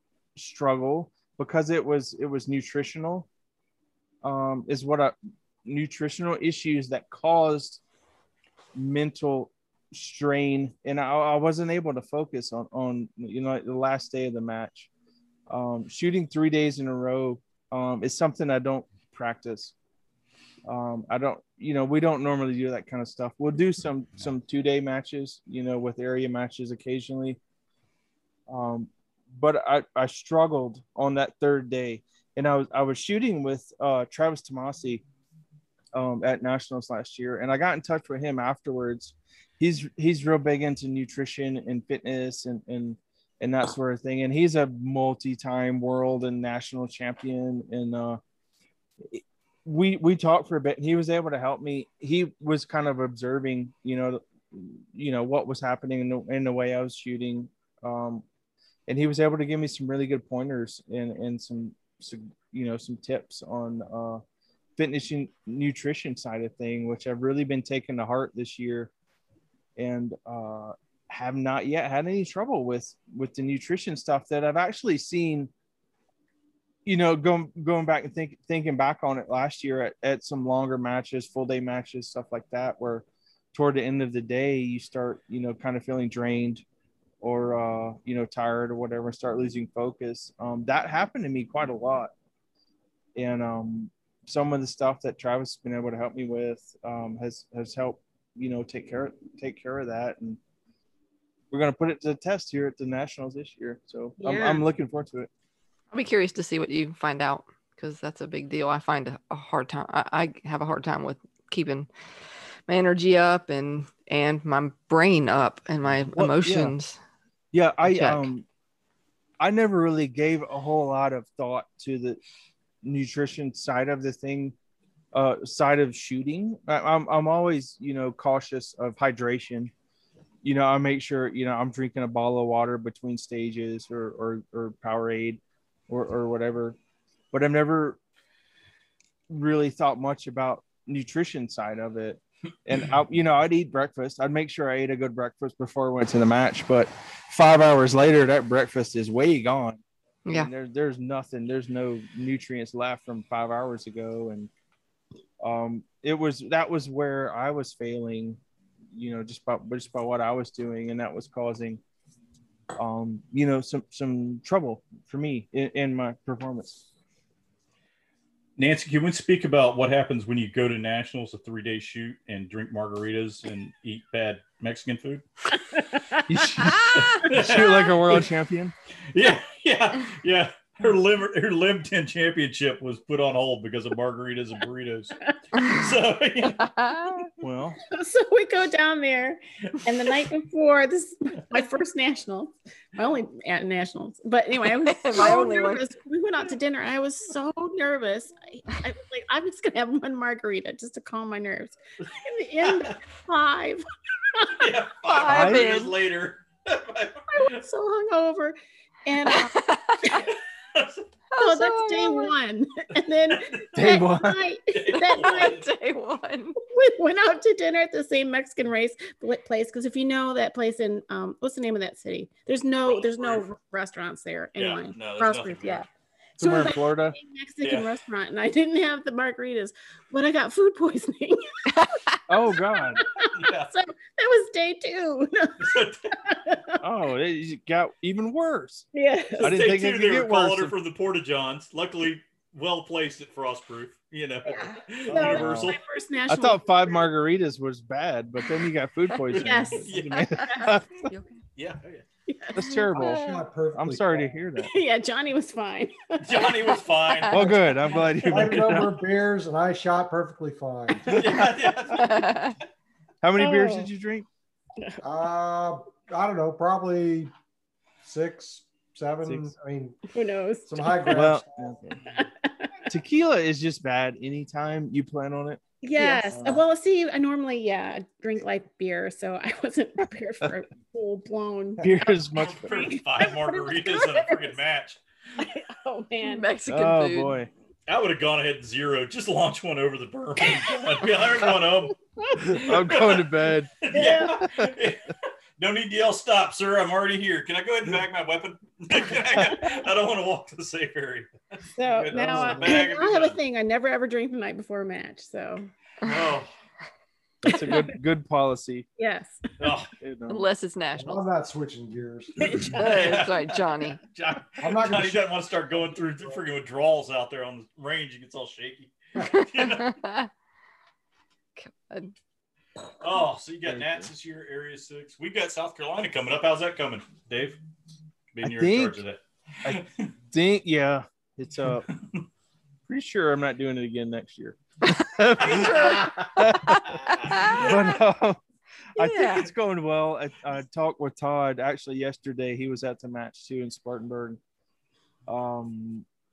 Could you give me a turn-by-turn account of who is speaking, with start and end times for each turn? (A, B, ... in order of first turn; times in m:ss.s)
0:00.4-0:03.3 A
0:04.2-0:05.1 A
0:05.6-0:07.8 A
0:08.7-0:14.9 A
0:15.5-0:19.7 A
0:20.6-0:27.4 A
0:28.5-0:35.0 A
0:35.9-0:48.2 A
0:49.0-0:58.2 A
0:58.9-1:04.2 A
1:04.8-1:08.9 A
1:09.8-1:15.5 A
1:16.8-1:26.6 A
1:27.2-1:32.1 A
1:33.1-1:40.4 A
1:41.5-1:45.3 A
1:44.2-1:44.6 B
1:45.9-1:51.9 C
1:52.7-1:57.0 C
1:56.1-1:56.7 A
1:57.5-1:58.4 A
1:57.8-1:58.3 C
1:59.4-2:02.2 A
2:02.8-2:04.5 A
2:05.1-2:09.7 A
2:10.4-2:16.8 A
2:17.3-2:18.0 A
2:19.3-2:34.5 A
2:35.4-2:38.4 A
2:38.9-2:41.8 A
2:42.7-2:46.8 A
2:48.6-2:55.2 D
2:55.6-2:56.2 B
2:56.3-2:58.7 A
2:56.6-2:57.3 C
2:56.9-2:58.2 D
2:59.1-3:06.7 D
3:06.5-3:07.3 C
3:07.4-3:07.8 A
3:07.9-3:24.7 B
3:14.8-3:15.8 C
3:22.6-3:22.9 D
3:24.5-3:27.6 D
3:25.0-3:25.9 C
3:25.2-3:25.8 A
3:27.3-3:30.3 B
3:29.3-3:30.2 C
3:31.3-3:32.3 C
3:31.4-3:35.6 B
3:33.3-3:33.6 D
3:33.7-3:34.4 A
3:34.7-3:35.7 D
3:35.1-3:36.6 C
3:36.6-3:45.8 B
3:42.8-3:43.4 D
3:44.6-3:45.8 D
3:46.4-3:47.2 A
3:46.4-3:51.8 B
3:47.6-3:47.9 D
3:52.3-3:53.0 A
3:52.5-3:56.8 B
3:53.3-3:53.7 D
3:55.6-3:56.1 D
3:56.8-3:58.9 A
3:58.9-3:59.5 B
3:59.4-4:00.7 A
3:59.4-4:05.8 D
4:04.4-4:07.1 B
4:05.1-4:05.7 A
4:06.3-4:11.1 A
4:09.4-4:10.4 D
4:09.4-4:10.7 B
4:11.1-4:11.4 C
4:11.6-4:12.0 D
4:12.3-4:13.4 B
4:12.5-4:14.7 A
4:12.6-4:13.1 C
4:12.9-4:14.3 E
4:14.6-4:16.8 B
4:16.2-4:17.6 D
4:17.2-4:17.5 C
4:17.3-4:19.0 A
4:18.2-4:21.4 E
4:21.1-4:22.5 D
4:21.9-4:22.5 C
4:23.2-4:24.3 A
4:23.4-4:23.9 B
4:25.0-4:27.3 E
4:28.0-4:30.0 E
4:29.2-4:29.5 A
4:30.1-4:31.2 B
4:30.7-4:31.6 E
4:31.1-4:32.0 A
4:32.0-4:32.8 B
4:32.9-4:35.6 A
4:35.8-4:41.9 B
4:36.0-4:36.5 C
4:36.3-4:36.6 E
4:41.8-4:42.9 A
4:42.3-4:45.0 D
4:42.6-4:44.6 B
4:45.4-4:46.4 B
4:46.2-4:47.4 C
4:46.7-4:47.5 A
4:47.9-5:01.3 D
4:52.3-4:52.6 B
4:52.4-4:54.7 A
4:53.9-4:54.4 B
5:01.8-5:05.7 B
5:01.9-5:03.4 D
5:02.1-5:02.8 A
5:06.0-5:06.5 D
5:07.4-5:08.9 A
5:09.0-5:09.5 B
5:09.6-5:09.9 D
5:10.0-5:10.5 A
5:10.3-5:11.2 C
5:11.0-5:12.6 E
5:12.4-5:12.8 B
5:12.5-5:20.0 D
5:12.7-5:14.0 C
5:14.6-5:15.3 E
5:19.3-5:20.3 C
5:21.6-5:22.1 C
5:23.0-5:27.6 D
5:23.6-5:24.1 A
5:28.3-5:30.0 D
5:28.4-5:29.0 A
5:29.6-5:31.9 A
5:31.9-5:32.2 D
5:32.9-5:38.4 A
5:35.4-5:37.8 C
5:35.4-5:37.8 D
5:39.0-5:44.4 A
5:39.0-5:39.5 C
5:45.3-5:46.0 A